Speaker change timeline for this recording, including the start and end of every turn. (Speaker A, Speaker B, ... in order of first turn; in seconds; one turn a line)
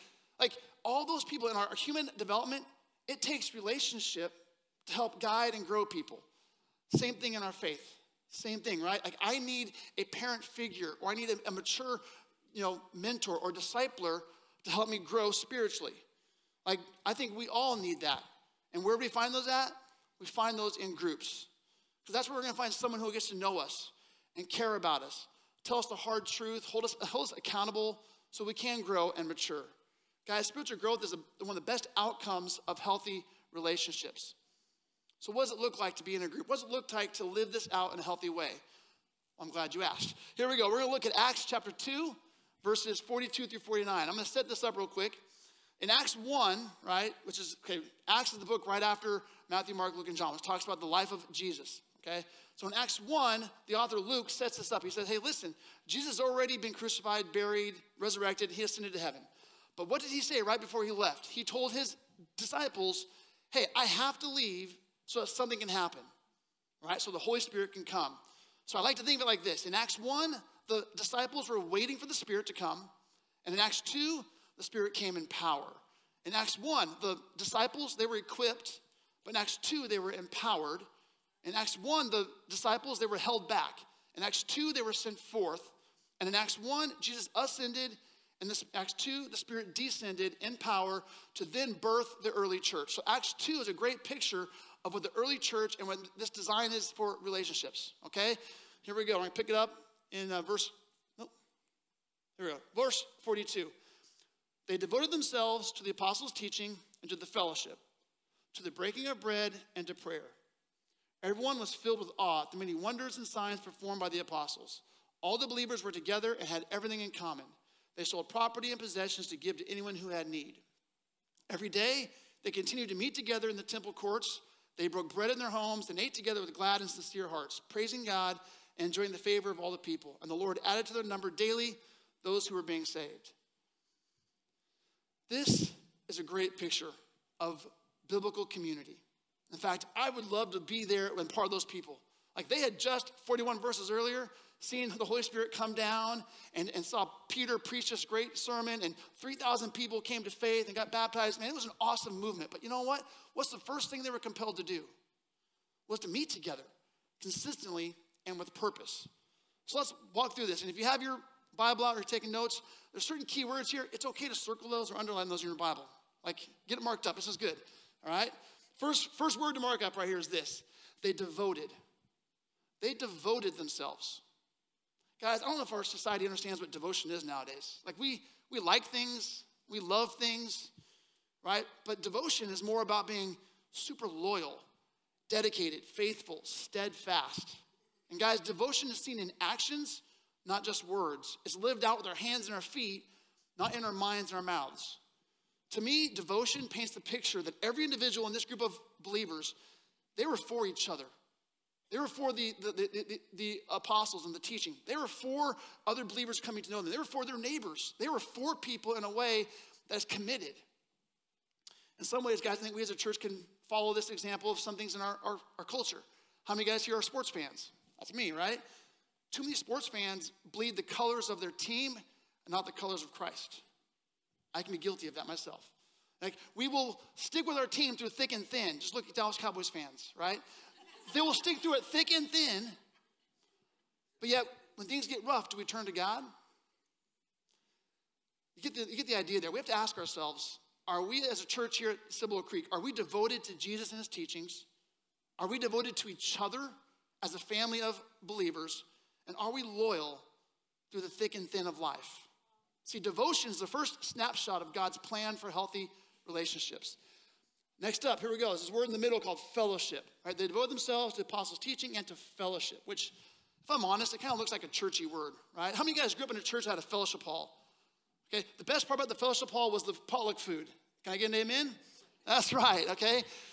Speaker A: 0.4-6.2
Speaker A: 6.9-12.0
Speaker A: 12.5-16.0
Speaker A: 16.6-21.5
Speaker A: 22.1-29.7
Speaker A: 30.3-34.4
Speaker A: 35.2-38.6
Speaker A: 39.4-45.2
Speaker A: 45.8-66.1
Speaker A: 66.8-72.9
Speaker A: 73.5-80.9
Speaker A: 81.4-101.3
Speaker A: 102.4-103.7
Speaker A: 104.7-107.8
Speaker A: 108.5-110.4
Speaker A: 111.2-120.6
Speaker A: 121.5-133.3
Speaker A: 135.3-154.9
Speaker A: 155.9-156.7
Speaker A: 157.2-159.1
Speaker A: 159.7-171.7
Speaker A: 172.8-174.2
Speaker A: 175.2-180.7
Speaker A: 181.4-184.7
Speaker A: 185.3-195.0
Speaker A: 195.7-199.6
Speaker A: 200.2-201.1
Speaker A: 201.9-210.6
Speaker A: 212.0-218.6
Speaker A: 219.3-223.6
Speaker A: 224.5-230.4
Speaker A: 231.1-232.8
Speaker A: 234.2-236.3
Speaker A: 238.6-244.7
Speaker A: 245.4-250.2
Speaker A: 250.9-252.3
Speaker A: 252.8-257.0
Speaker A: 257.8-267.6
Speaker A: 268.3-273.3